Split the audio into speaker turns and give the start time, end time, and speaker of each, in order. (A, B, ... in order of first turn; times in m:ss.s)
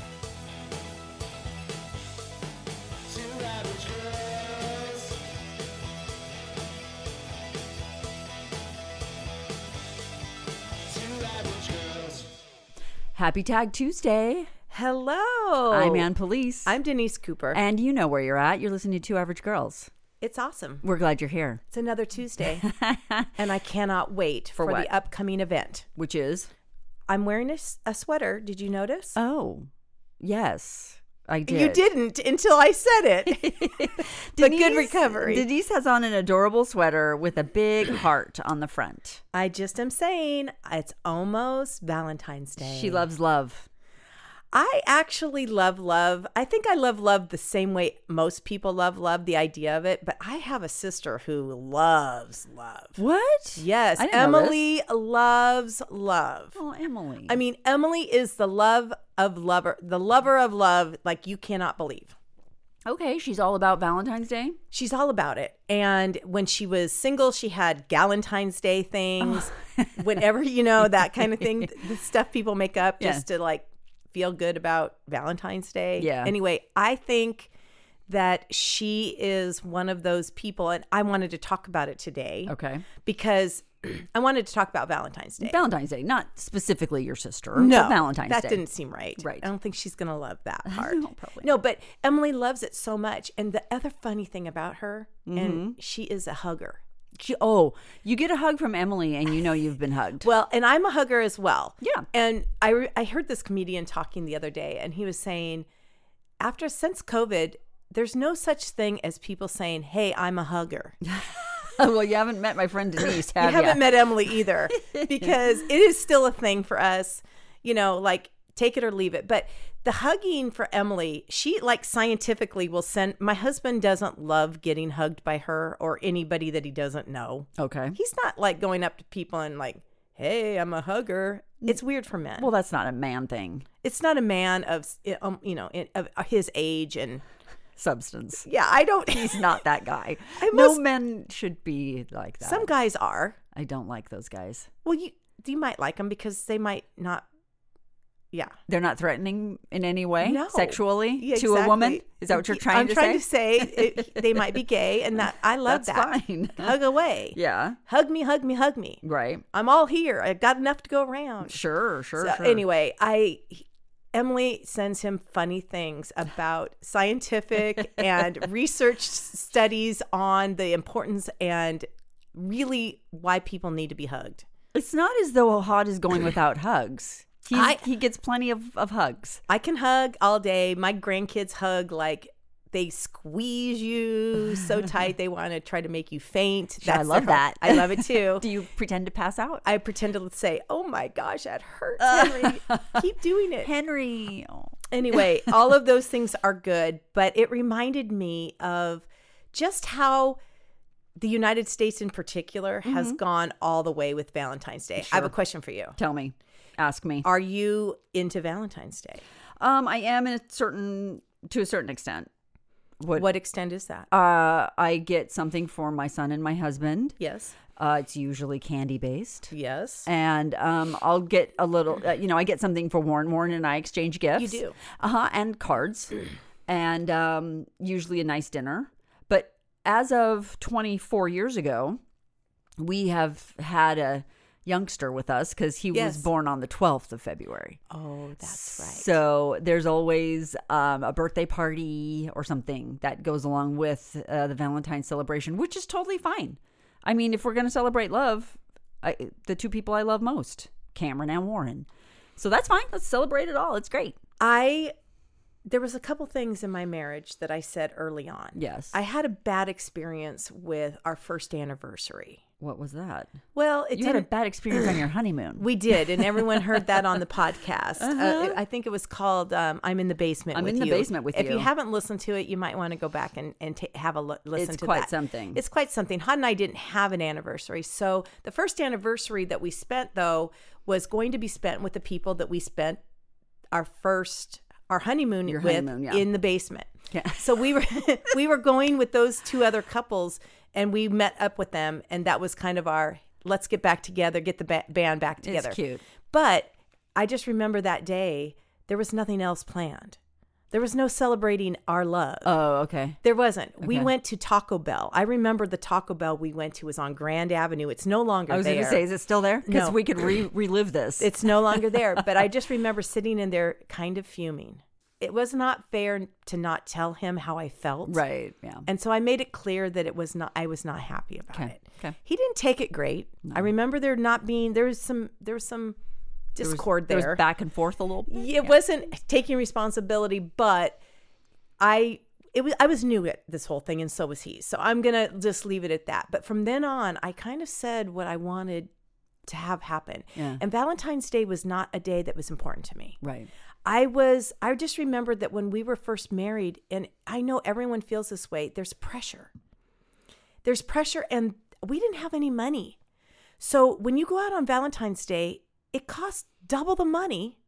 0:03.1-0:05.2 A
0:10.9-0:12.3 A
0:13.2-0:14.5 B
0:14.7-0:16.1 C
0:15.7-0:16.8 B
0:16.6-0:17.6 C
0:17.5-0:19.9 B
0:20.2-0:20.8 C
0:20.8-0:21.6 B
0:21.7-0:22.7 C
0:22.6-0:23.3 B
0:23.4-0:25.9 C
0:24.6-0:24.9 B
0:26.0-0:26.5 B
0:27.1-0:29.2 C
0:29.2-0:29.7 B
0:30.2-0:31.8 B
0:31.5-0:35.5 C
0:33.3-0:39.2 B
0:39.3-0:43.1 C
0:42.6-0:43.7 B
0:44.5-0:53.0 C
0:53.0-0:54.7 B
0:53.6-0:56.6 C
0:56.6-0:57.4 B
0:57.3-1:02.2 C
1:02.8-1:04.6 B
1:04.7-1:17.5 C
1:09.2-1:10.2 B
1:11.4-1:11.7 B
1:13.0-1:13.2 B
1:16.0-1:16.3 B
1:18.1-1:25.6 C
1:22.5-1:22.9 B
1:25.4-1:28.6 B
1:27.6-1:36.8 C
1:29.2-1:29.5 B
1:30.7-1:31.5 B
1:35.3-1:35.8 B
1:37.2-1:40.3 B
1:40.2-1:45.7 C
1:46.4-1:51.0 C
1:51.0-1:54.0 B
1:53.4-2:12.5 C
1:54.8-1:55.4 B
2:07.6-2:08.0 B
2:12.4-2:13.7 B
2:13.8-2:17.2 C
2:17.8-2:18.5 B
2:18.4-2:19.6 C
2:19.1-2:22.7 B
2:20.4-2:20.8 C
2:22.4-2:23.4 C
2:23.5-2:24.7 B
2:24.8-2:27.3 C
2:28.3-2:28.6 C
2:28.7-2:34.6 B
2:30.2-2:41.6 C
2:35.7-2:36.8 B
2:37.3-2:37.8 B
2:39.0-2:39.4 B
2:41.5-2:42.6 B
2:42.2-2:54.5 C
2:54.7-2:59.4 B
2:57.5-2:57.8 C
2:59.5-3:08.4 C
3:06.8-3:09.6 B
3:09.6-3:13.7 C
3:12.0-3:13.0 B
3:13.6-3:15.2 B
3:14.9-3:20.4 C
3:21.2-3:26.0 C
3:22.9-3:23.2 B
3:25.0-3:25.3 B
3:26.0-3:27.3 B
3:27.2-3:29.2 C
3:29.6-3:32.3 B
3:33.0-3:33.3 B
3:33.1-3:34.1 C
3:34.1-3:37.2 B
3:37.2-3:37.6 C
3:37.8-3:39.5 B
3:39.5-3:40.1 C
3:40.1-3:46.2 B
3:44.4-3:44.8 C
3:46.7-3:52.0 B
3:52.8-3:57.8 B
3:55.9-3:56.3 C
3:57.9-3:59.2 C
3:58.5-4:14.2 B
4:14.4-4:14.9 C
4:15.7-4:22.4 C
4:18.6-4:19.0 B
4:22.6-4:23.4 B
4:23.6-4:25.0 C
4:24.0-4:27.0 B
4:25.6-4:43.0 C
4:28.0-4:28.6 B
4:30.5-4:31.7 B
4:34.6-4:35.6 B
4:43.7-4:55.8 C
4:45.5-4:46.3 B
4:47.1-4:47.6 B
4:55.4-4:56.0 B
4:56.3-5:00.2 C
5:00.7-5:02.5 C
5:02.4-5:03.2 B
5:03.2-5:09.0 C
5:03.8-5:04.1 B
5:08.5-5:12.2 B
5:09.7-5:10.3 C
5:11.2-5:18.2 C
5:18.1-5:18.9 B
5:18.8-5:26.0 C
5:21.5-5:22.2 B
5:26.6-5:27.4 C
5:26.6-5:28.8 B
5:28.3-5:31.0 C
5:31.8-5:38.9 C
5:39.5-5:43.2 C
5:40.4-5:40.6 B
5:43.2-5:43.5 B
5:43.8-5:49.5 C
5:50.6-5:53.0 C
5:53.6-5:57.6 C